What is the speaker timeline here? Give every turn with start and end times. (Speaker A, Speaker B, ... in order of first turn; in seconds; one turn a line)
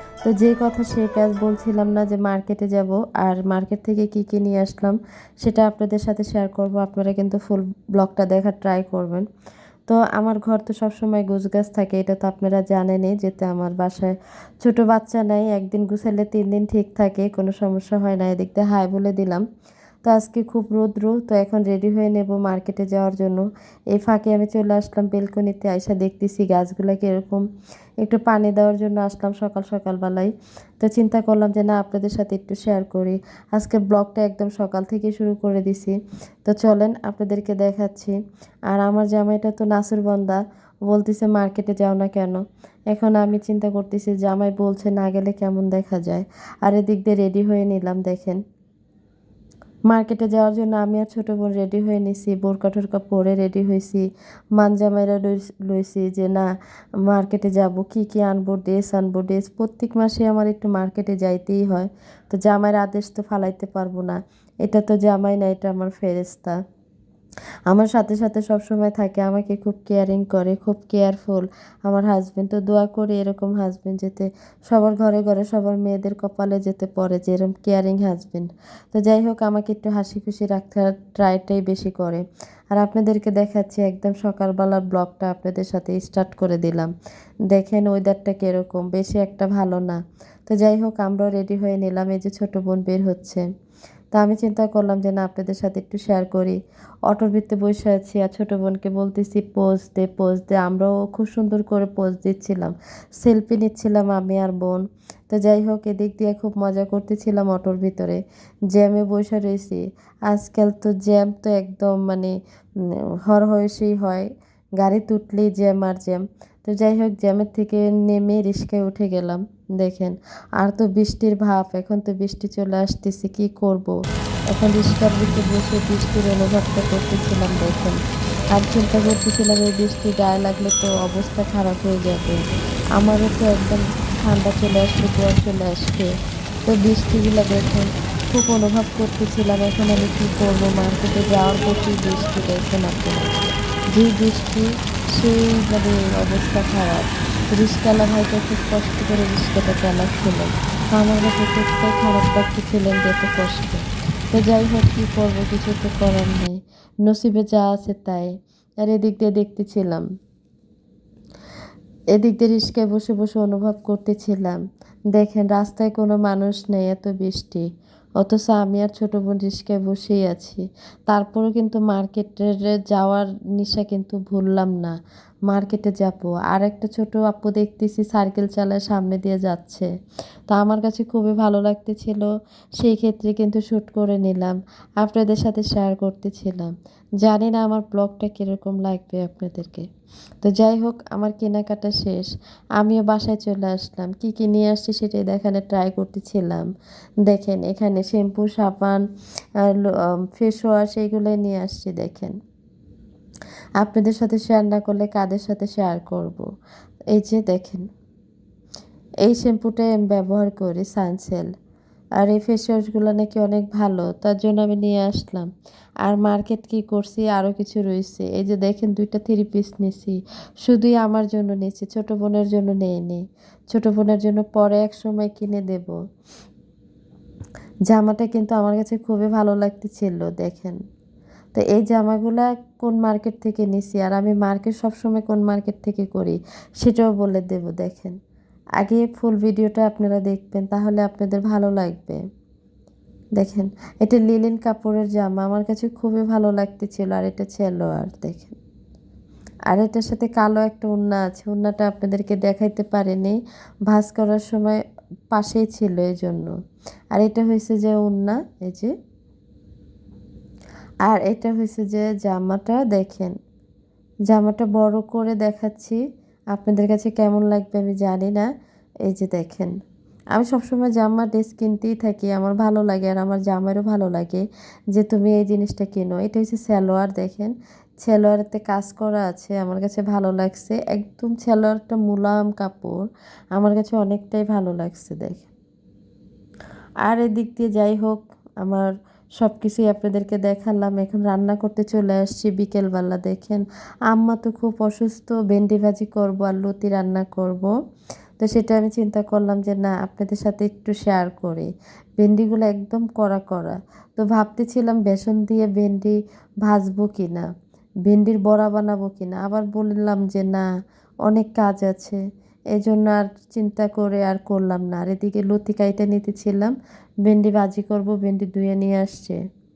Speaker A: 0.2-9.2
Speaker A: 9.9-19.4
Speaker A: 20.0-27.4
Speaker A: 28.0-38.1
Speaker A: 38.7-42.4
Speaker A: 42.9-48.4
Speaker A: 49.9-54.0
Speaker A: 54.6-56.5
Speaker A: 57.0-66.6
Speaker A: 67.7-86.9
Speaker A: 87.5-93.4
Speaker A: 94.1-96.6
Speaker A: 97.1-108.2
Speaker A: 108.7-112.3
Speaker A: 113.3-114.3
Speaker A: 114.8-124.0
Speaker A: 124.5-128.0
Speaker A: 128.5-132.4
Speaker A: 133.0-136.1
Speaker A: 136.7-160.0
Speaker A: 162.2-164.6
Speaker A: 165.1-167.7
Speaker A: 168.2-174.9
Speaker A: 175.5-179.9
Speaker A: 180.5-182.3
Speaker A: 182.8-189.8
Speaker A: 190.4-196.7
Speaker A: 197.2-199.0
Speaker A: 199.6-202.3
Speaker A: 203.8-206.4
Speaker A: 207.1-207.8
Speaker A: 209.2-211.5
Speaker A: 212.2-215.5
Speaker A: 216.0-226.0
Speaker A: 227.9-230.8
Speaker A: 231.5-238.1
Speaker A: 238.8-242.2
Speaker A: 243.4-248.5
Speaker A: 249.7-253.3
Speaker A: 253.9-254.8
Speaker A: 255.3-256.5
Speaker A: 257.1-258.9
Speaker A: 261.1-263.3
Speaker A: 264.3-266.0
Speaker A: 266.5-268.5
Speaker A: 269.1-269.7
Speaker A: 270.3-277.5
Speaker A: 278.0-283.0
Speaker A: 283.5-285.5
Speaker A: 287.0-297.7
Speaker A: 298.4-301.7
Speaker A: 302.2-307.5
Speaker A: 308.1-310.6
Speaker A: 311.2-312.2
Speaker A: 312.7-316.7
Speaker A: 317.2-319.4